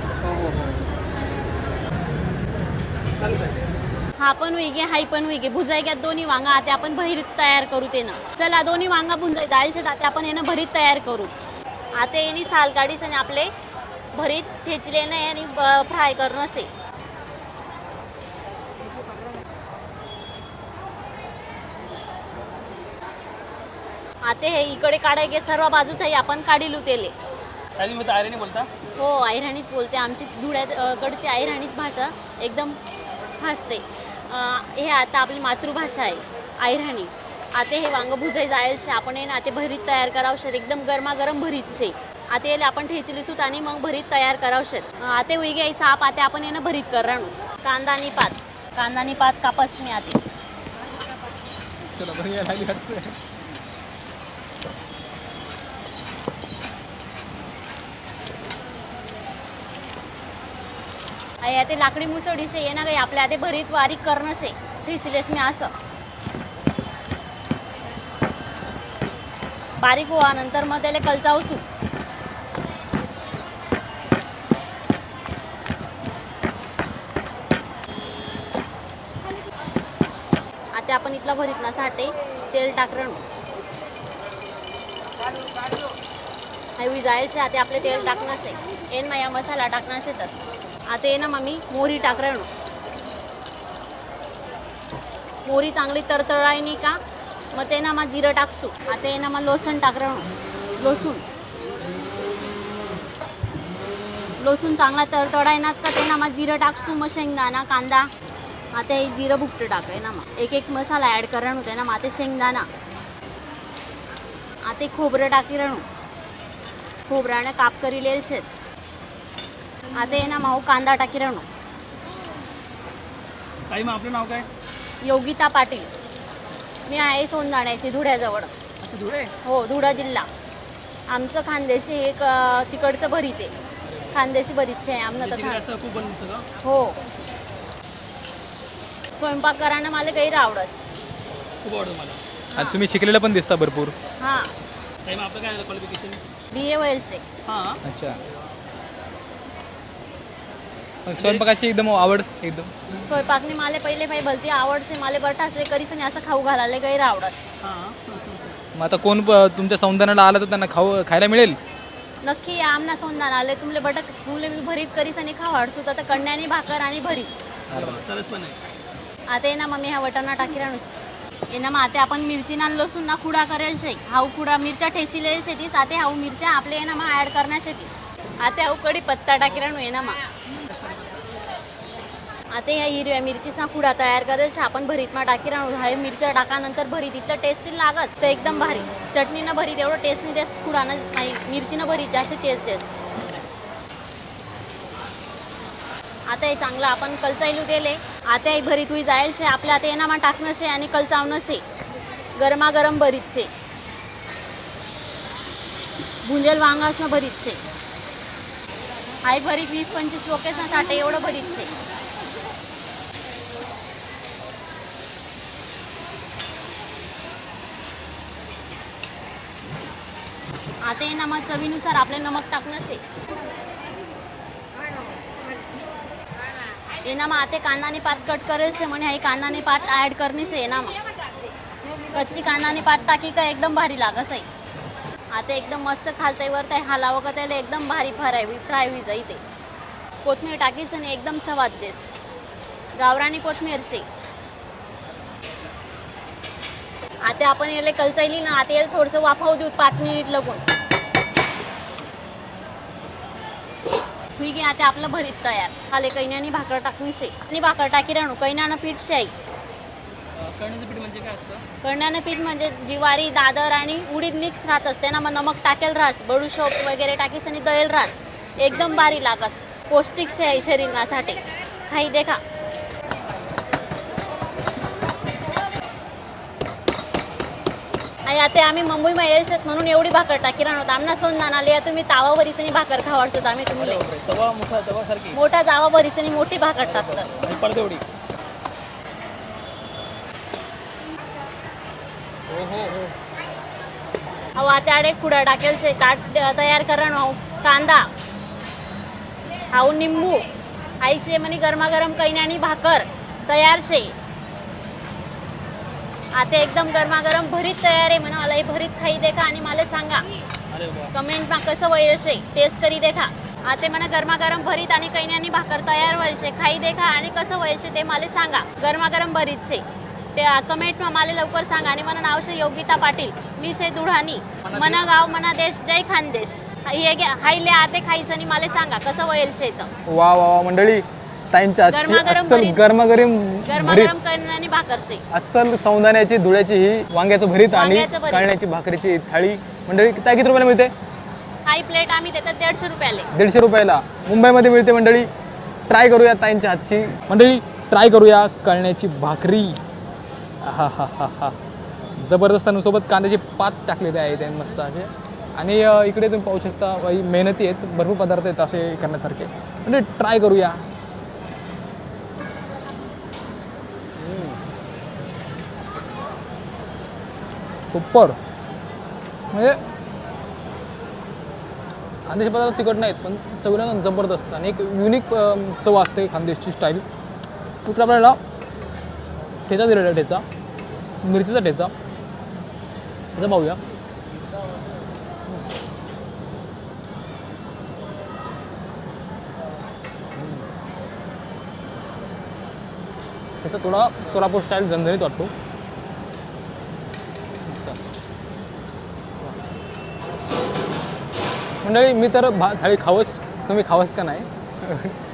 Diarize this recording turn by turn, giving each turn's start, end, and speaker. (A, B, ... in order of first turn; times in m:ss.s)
0:00.3-0:00.6 A
0:04.2-0:11.4 B
0:11.9-0:13.5 B
0:14.1-0:16.7 B
0:24.2-0:27.1 B
0:27.8-0:28.7 A
0:29.0-0:32.8 B
0:33.4-0:50.2 B
0:51.9-0:53.2 C
1:01.4-1:05.7 B
1:09.8-1:11.6 B
1:20.7-1:23.2 B
1:26.8-1:32.5 B
1:35.5-1:37.0 B
1:37.5-1:40.3 B
1:40.8-1:41.2 B
1:44.4-1:48.1 B
1:48.7-1:52.7 B
1:54.6-1:55.9 B
1:57.1-1:58.5 B
1:59.9-2:01.5 B
2:03.7-2:04.5 A
2:05.0-2:05.9 B
2:06.9-2:08.6 B
2:08.8-2:09.3 A
2:09.4-2:10.3 B
2:11.1-2:13.5 B
2:13.9-2:14.2 A
2:14.1-2:15.6 B
2:15.2-2:16.5 A
2:16.6-2:17.0 B
2:19.1-2:20.8 B
2:21.6-2:22.2 A
2:22.5-2:22.8 B
2:22.6-2:24.0 C
2:24.2-2:24.5 B
2:25.0-2:26.2 A
2:26.5-2:27.2 B
2:27.4-2:27.8 A
2:27.8-2:28.2 C
2:31.0-2:32.7 C
2:31.2-2:31.4 A
2:33.0-2:37.6 B
2:37.6-2:38.6 A
2:38.8-2:41.6 C
2:42.2-2:47.3 B
2:47.7-2:48.0 C
2:47.7-2:48.6 A
2:49.3-2:50.9 B
2:51.5-3:00.2 B
3:00.7-3:01.0 A
3:02.5-3:13.0 B
3:16.3-3:21.6 B
3:22.4-3:23.5 B
3:26.2-3:27.6 B
3:29.2-3:31.7 B
3:40.8-3:43.0 B
3:46.9-3:51.0 B
3:52.1-3:54.5 B
3:55.3-3:59.4 B
4:00.2-4:02.2 B
4:03.0-4:04.1 B
4:07.2-4:10.6 B
4:14.4-4:19.3 B
4:20.4-4:21.6 A
4:21.8-4:32.4 B
4:38.3-4:44.0 B
4:43.8-4:45.4 A
4:45.3-4:47.4 B
4:46.8-4:48.1 A
4:52.5-4:53.1 A
4:54.6-4:58.1 B
4:59.7-5:00.5 B
5:01.0-5:04.2 B
5:06.3-5:10.3 B
5:10.7-5:11.1 A
5:11.1-5:29.9 B
5:24.7-5:25.0 A
5:30.1-5:34.2 C
5:31.9-5:32.8 B
5:33.7-5:35.2 B
5:35.3-5:40.9 C
5:37.7-5:38.5 B
5:41.7-5:43.3 B
5:43.3-5:45.3 C
5:45.9-5:49.8 C
5:50.6-5:51.6 C
5:52.2-6:00.8 C
6:04.2-6:04.6 C
6:07.9-6:08.4 C
6:09.5-6:09.8 C
6:12.3-6:17.0 C
6:17.8-6:18.4 C
6:19.7-6:20.4 C
6:21.2-6:21.9 C
6:23.4-6:23.8 C
6:30.4-6:30.6 C
6:33.6-6:35.5 C
6:37.6-6:38.0 C
6:41.8-6:45.2 C